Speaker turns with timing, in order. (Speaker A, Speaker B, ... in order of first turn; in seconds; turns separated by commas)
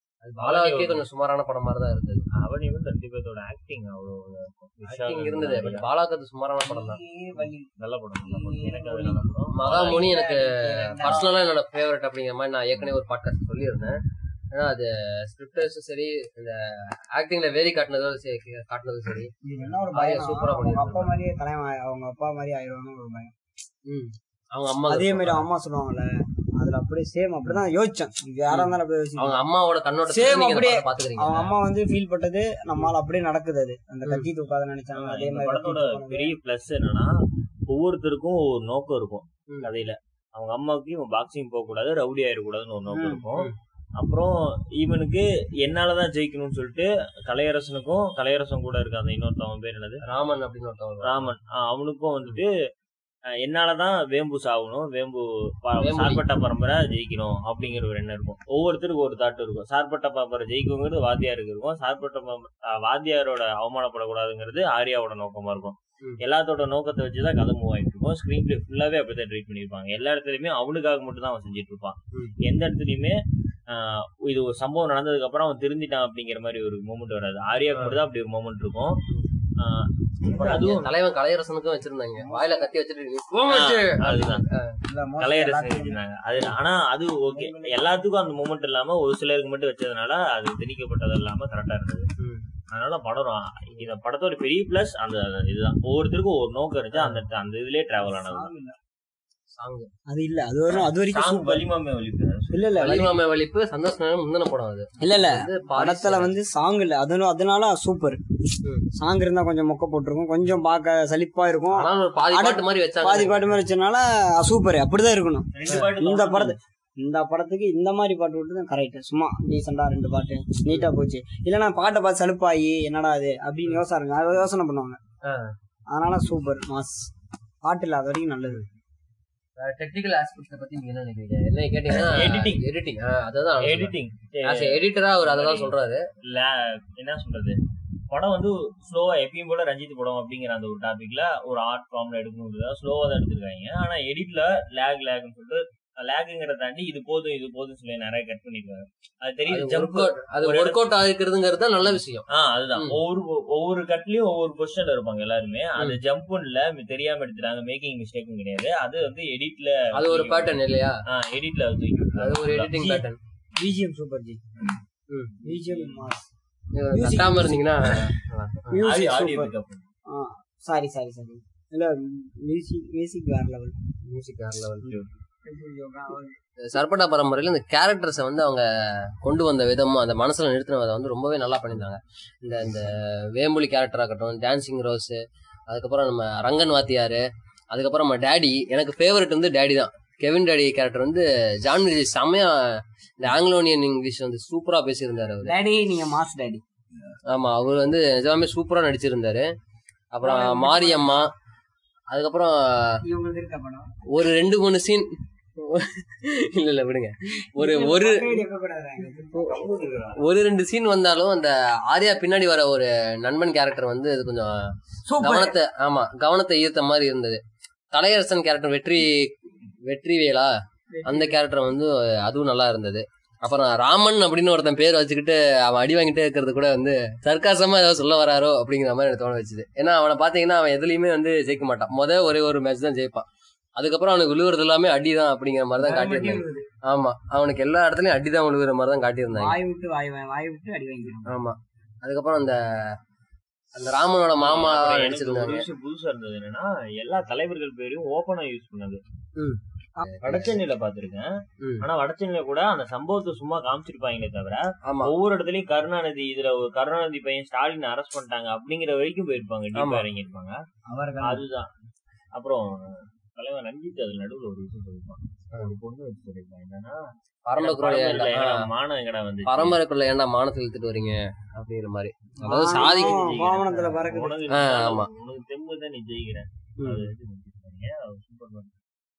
Speaker A: 0.2-2.2, Speaker B: 0.4-1.1, Speaker B: 2.4-5.9, Speaker A: 4.9-7.0, Speaker C: 6.6-7.7, Speaker B: 7.3-10.2, Speaker C: 8.2-11.3, Speaker A: 9.5-14.0, Speaker A: 14.5-19.3, Speaker C: 19.4-23.3, Speaker A: 19.9-21.1, Speaker A: 23.9-25.5, Speaker C: 24.9-29.4, Speaker A: 28.5-31.5, Speaker C: 30.1-36.4, Speaker B: 35.0-37.1, Speaker B: 37.7-50.0, Speaker C: 42.9-43.3, Speaker A: 50.0-51.3, Speaker B: 51.0-52.5, Speaker B: 53.4-79.0, Speaker A: 55.8-56.2, Speaker B: 79.6-80.9, Speaker C: 80.3-80.7, Speaker A: 80.4-84.7, Speaker C: 82.2-82.7, Speaker B: 83.5-84.5, Speaker C: 84.9-86.0, Speaker B: 85.2-92.1, Speaker C: 87.3-88.2, Speaker A: 92.2-92.5, Speaker B: 92.7-98.5, Speaker A: 96.9-97.2, Speaker C: 98.0-98.8, Speaker A: 99.6-99.9, Speaker C: 100.1-101.6, Speaker B: 100.7-102.9, Speaker C: 102.5-103.2, Speaker A: 102.8-106.3, Speaker C: 105.0-108.2, Speaker C: 109.0-125.0, Speaker A: 111.7-113.6, Speaker B: 115.5-116.6, Speaker A: 125.3-125.5, Speaker C: 125.9-127.1, Speaker C: 127.6-128.7, Speaker A: 129.6-136.0, Speaker B: 131.9-132.6, Speaker B: 133.6-135.7, Speaker B: 136.3-150.8, Speaker A: 149.5-152.2, Speaker B: 151.8-160.6, Speaker A: 159.9-161.0, Speaker B: 161.1-162.8, Speaker A: 162.2-163.2, Speaker C: 162.7-163.1, Speaker C: 163.6-164.4, Speaker A: 165.1-165.4, Speaker B: 165.4-166.1, Speaker C: 165.4-166.2, Speaker A: 166.8-168.8, Speaker C: 166.9-167.9, Speaker C: 168.7-169.5, Speaker B: 168.8-169.9, Speaker C: 170.1-173.8, Speaker A: 174.1-174.9, Speaker B: 174.8-175.1, Speaker C: 175.4-176.4, Speaker A: 176.7-192.6, Speaker A: 193.2-195.6, Speaker C: 195.4-196.6, Speaker A: 197.3-199.5, Speaker A: 200.1-201.3, Speaker C: 200.2-201.3, Speaker A: 202.1-203.0, Speaker C: 203.1-203.9, Speaker A: 204.1-205.1, Speaker A: 205.6-208.3, Speaker C: 207.6-210.1, Speaker B: 209.5-210.1, Speaker A: 210.2-214.6, Speaker C: 215.1-215.6, Speaker A: 215.2-217.4, Speaker A: 217.9-219.3, Speaker A: 219.9-220.5, Speaker C: 220.9-221.4, Speaker A: 221.1-233.3, Speaker A: 233.8-239.6, Speaker C: 235.8-236.7, Speaker C: 239.3-241.4, Speaker A: 241.3-242.6, Speaker A: 243.8-245.7, Speaker B: 244.4-249.0, Speaker A: 249.4-250.6, Speaker B: 250.2-251.3, Speaker B: 251.8-260.6, Speaker A: 254.9-255.1, Speaker A: 259.8-260.1, Speaker C: 260.9-261.5, Speaker B: 261.2-261.7, Speaker B: 262.3-267.0, Speaker A: 267.5-268.6, Speaker B: 267.6-269.8, Speaker A: 269.5-273.3, Speaker C: 272.4-274.4, Speaker B: 272.5-278.7, Speaker A: 274.5-275.1